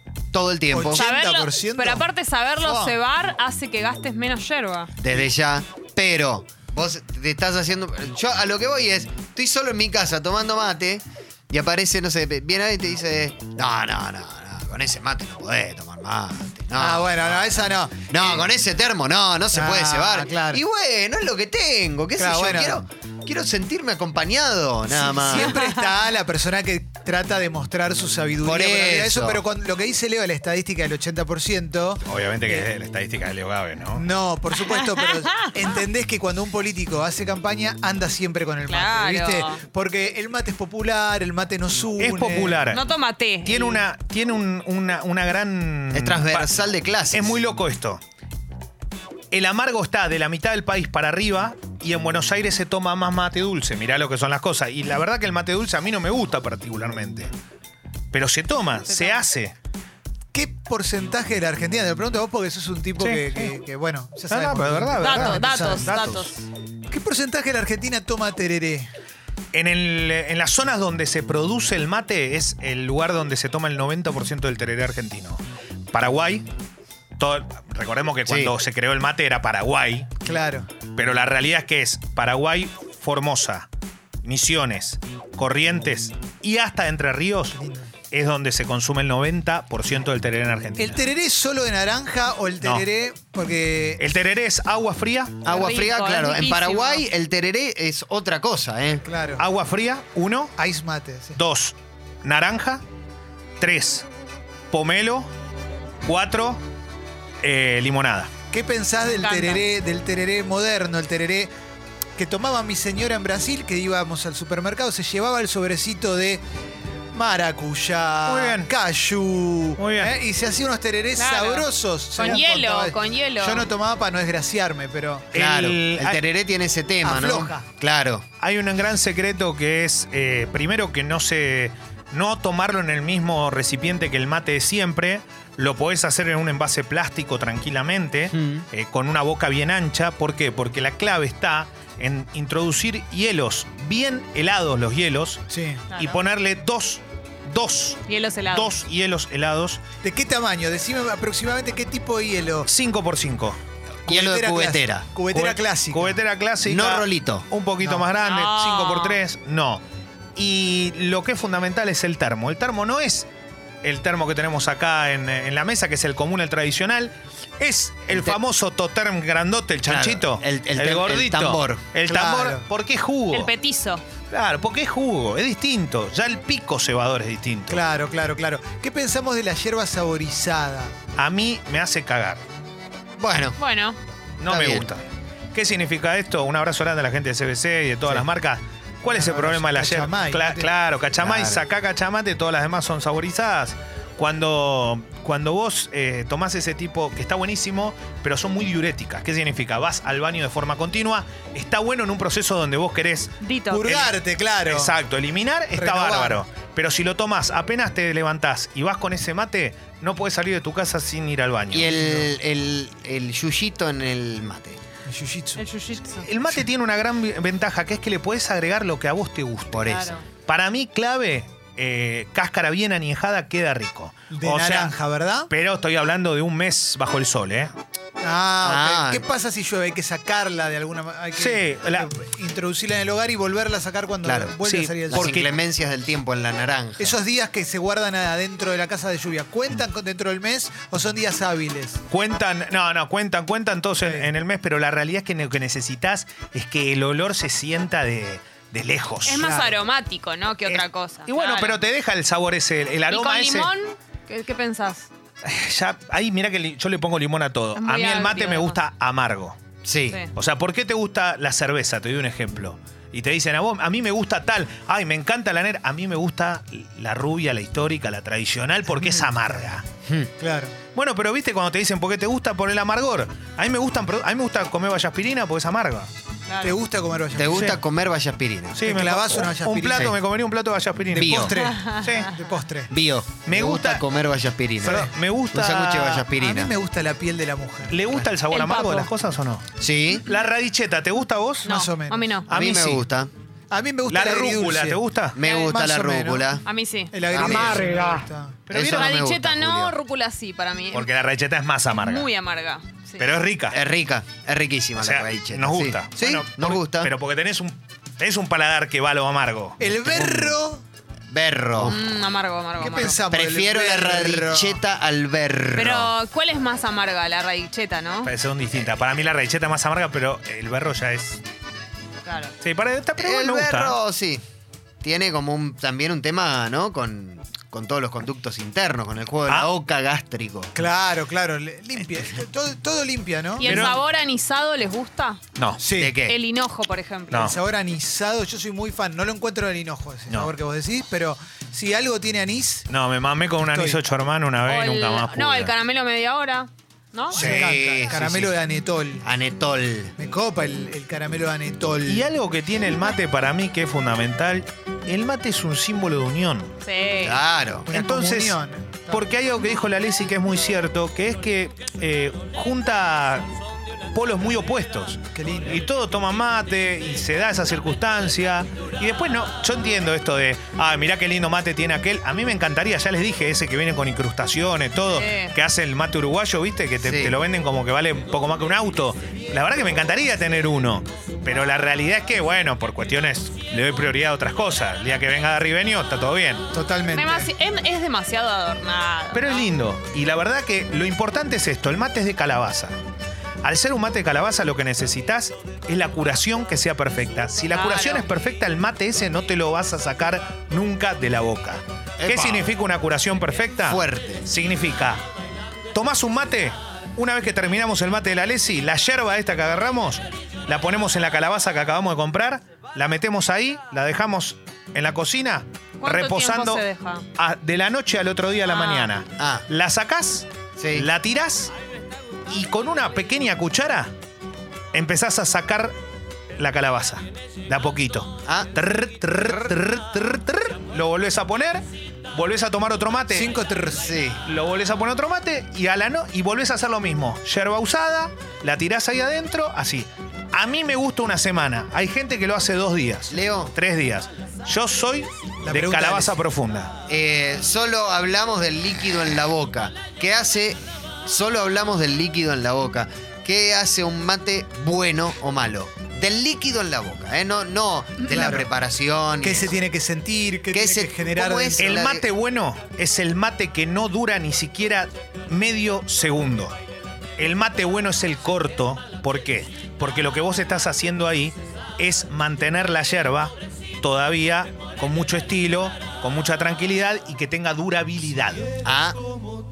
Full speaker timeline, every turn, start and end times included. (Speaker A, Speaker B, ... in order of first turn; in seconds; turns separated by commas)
Speaker A: 0.3-1.1, Speaker B: 0.7-2.1, Speaker C: 0.9-4.9, Speaker B: 2.6-3.0, Speaker A: 5.0-25.6, Speaker B: 16.8-18.5, Speaker B: 19.5-20.6, Speaker B: 22.1-22.8, Speaker B: 24.9-32.6, Speaker A: 28.4-29.4, Speaker D: 32.0-34.0, Speaker B: 33.9-42.6, Speaker C: 38.6-39.6, Speaker D: 42.0-42.8, Speaker C: 42.7-43.9, Speaker D: 43.4-46.5, Speaker A: 45.9-47.4, Speaker D: 47.1-48.0, Speaker D: 49.3-57.3, Speaker D: 58.1-59.5, Speaker C: 58.9-59.3, Speaker B: 60.3-66.0, Speaker D: 63.0-63.5, Speaker D: 64.3-66.3, Speaker C: 65.0-66.4, Speaker B: 66.9-68.9, Speaker D: 69.5-76.5, Speaker D: 77.2-80.3, Speaker A: 78.2-78.5, Speaker B: 80.2-80.7, Speaker D: 80.9-83.7, Speaker D: 84.2-87.6, Speaker B: 87.5-87.9, Speaker D: 88.1-91.0, Speaker B: 90.8-94.0, Speaker D: 92.6-92.9, Speaker D: 94.0-95.5, Speaker A: 95.4-99.0, Speaker C: 95.5-97.0, Speaker B: 99.0-99.4, Speaker D: 99.4-100.5, Speaker B: 100.6-101.4, Speaker D: 101.3-102.8, Speaker D: 103.6-104.0, Speaker D: 104.7-105.3, Speaker D: 106.0-106.6, Speaker D: 107.4-108.3, Speaker B: 108.5-111.5, Speaker C: 109.1-109.7, Speaker B: 112.2-116.4, Speaker B: 117.1-125.3, Speaker D: 118.2-118.7, Speaker D: 119.8-120.1, Speaker C: 121.2-123.7, Speaker D: 122.2-122.4, Speaker D: 125.3-126.2, Speaker A: 125.3-128.2, Speaker B: 127.0-127.7, Speaker D: 128.4-145.4, Speaker A: 138.3-138.6, Speaker B: 145.5-145.8, Speaker C: 145.9-146.2, Speaker D: 145.9-149.8, Speaker C: 148.1-148.8, Speaker B: 150.0-152.7, Speaker D: 152.7-153.6, Speaker B: 154.1-156.2, Speaker A: 154.1-155.1, Speaker D: 155.3-159.8, Speaker A: 156.6-157.4, Speaker B: 157.8-158.1, Speaker C: 158.2-159.2, Speaker D: 160.3-163.3, Speaker D: 163.8-173.5, Speaker A: 168.1-168.4, Speaker A: 169.8-171.9, Speaker B: 172.0-172.7, Speaker C: 173.3-174.0, Speaker D: 174.3-177.8, Speaker B: 177.7-180.9, Speaker D: 181.2-182.4, Speaker A: 183.2-183.6, Speaker C: 183.6-184.0, Speaker D: 184.4-185.0, Speaker A: 184.4-184.9, Speaker D: 185.5-203.3, Speaker B: 189.1-190.7, Speaker A: 191.2-191.6, Speaker C: 203.4-203.9, Speaker B: 203.7-204.9, Speaker D: 203.8-211.9, Speaker B: 205.7-206.4, Speaker A: 211.7-214.8, Speaker B: 211.8-212.3, Speaker B: 215.1-215.6, Speaker C: 215.6-216.3, Speaker D: 216.2-219.9, Speaker A: 219.7-220.1, Speaker C: 219.9-220.2, Speaker D: 220.4-224.9, Speaker B: 224.3-225.5, Speaker D: 225.5-227.7, Speaker B: 228.2-235.3, Speaker A: 228.6-229.2, Speaker D: 231.4-232.1, Speaker A: 234.2-234.6, Speaker D: 234.6-235.5, Speaker A: 235.1-237.2, Speaker B: 237.0-242.0, Speaker D: 242.1-249.4, Speaker B: 244.0-244.3, Speaker C: 249.2-251.8, Speaker B: 249.4-249.8, Speaker D: 250.6-253.7, Speaker C: 253.1-255.1, Speaker D: 255.4-259.6, Speaker C: 257.7-258.8, Speaker A: 259.8-260.2, Speaker D: 260.3-269.8, Speaker B: 270.4-270.8, Speaker D: 270.9-276.1, Speaker C: 276.5-276.8, Speaker B: 276.6-277.8, Speaker A: 277.4-278.8, Speaker D: 277.4-277.8, Speaker D: 278.7-282.3, Speaker B: 278.8-280.2, Speaker B: 281.1-282.9, Speaker A: 281.1-281.6, Speaker C: 281.6-282.1, Speaker A: 282.9-286.7, Speaker D: 283.4-284.0, Speaker D: 284.8-286.3, Speaker B: 284.9-285.1, Speaker B: 286.4-288.3, Speaker D: 287.9-289.6, Speaker C: 288.5-289.1, Speaker A: 289.8-290.2, Speaker D: 290.2-291.7, Speaker C: 291.6-292.5, Speaker B: 291.7-292.3, Speaker D: 292.5-293.1, Speaker A: 292.5-293.3, Speaker B: 293.7-296.5, Speaker D: 294.1-295.4, Speaker A: 295.3-296.6, Speaker C: 295.4-295.7, Speaker C: 296.6-297.3, Speaker B: 297.1-298.6, Speaker A: 297.3-297.9, Speaker D: 297.4-299.1, Speaker A: 298.7-299.9, Speaker C: 298.9-301.1, Speaker D: 300.9-302.3, Speaker C: 301.9-303.3, Speaker D: 303.2-303.8, Speaker A: 303.7-307.1, Speaker D: 305.0-309.8, Speaker B: 309.8-310.8, Speaker A: 310.1-310.6, Speaker A: 311.3-312.0, Speaker C: 311.8-313.2, Speaker B: 312.8-314.8, Speaker A: 313.3-316.1, Speaker C: 315.7-318.3, Speaker D: 318.2-321.4, Speaker C: 322.2-322.5, Speaker D: 322.6-324.0, Speaker A: 323.2-324.4, Speaker A: 325.0-330.7, Speaker B: 330.7-333.8, Speaker C: 333.6-335.4, Speaker D: 333.6-334.0, Speaker D: 335.6-335.8, Speaker B: 335.8-336.1, Speaker A: 335.9-336.4, Speaker C: 336.2-337.5, Speaker D: 337.3-337.6, Speaker B: 337.3-342.9, Speaker D: 342.9-345.7, Speaker B: 343.6-344.0, Speaker C: 344.6-347.5, Speaker D: 347.3-347.7, Speaker B: 347.3-349.3, Speaker A: 347.4-348.5, Speaker A: 349.2-350.1, Speaker B: 350.2-352.3, Speaker D: 352.0-356.7, Speaker C: 356.8-357.4, Speaker A: 357.2-357.9, Speaker B: 357.9-359.3, Speaker D: 357.9-363.5, Speaker D: 364.1-386.6, Speaker B: 365.3-365.8, Speaker C: 375.1-375.6, Speaker A: 377.0-377.3, Speaker B: 386.7-387.5, Speaker C: 387.1-389.7, Speaker D: 389.3-393.0, Speaker D: 393.6-405.2, Speaker C: 397.7-398.3, Speaker A: 402.2-402.7, Speaker A: 403.8-404.5, Speaker D: 405.9-416.8, Speaker C: 416.0-417.2, Speaker D: 417.4-421.7, Speaker C: 418.6-419.1, Speaker A: 419.4-419.7, Speaker A: 420.8-421.1, Speaker D: 422.5-424.1, Speaker D: 424.9-425.9, Speaker D: 426.6-433.5, Speaker A: 428.4-428.7, Speaker B: 433.3-434.1, Speaker A: 433.9-434.4, Speaker D: 434.4-446.9, Speaker A: 443.3-443.7, Speaker B: 445.6-446.4, Speaker A: 447.1-459.7, Speaker B: 458.2-458.7, Speaker B: 459.4-461.8, Speaker A: 460.7-462.2, Speaker D: 461.8-466.7, Speaker D: 467.4-478.7, Speaker A: 478.8-479.2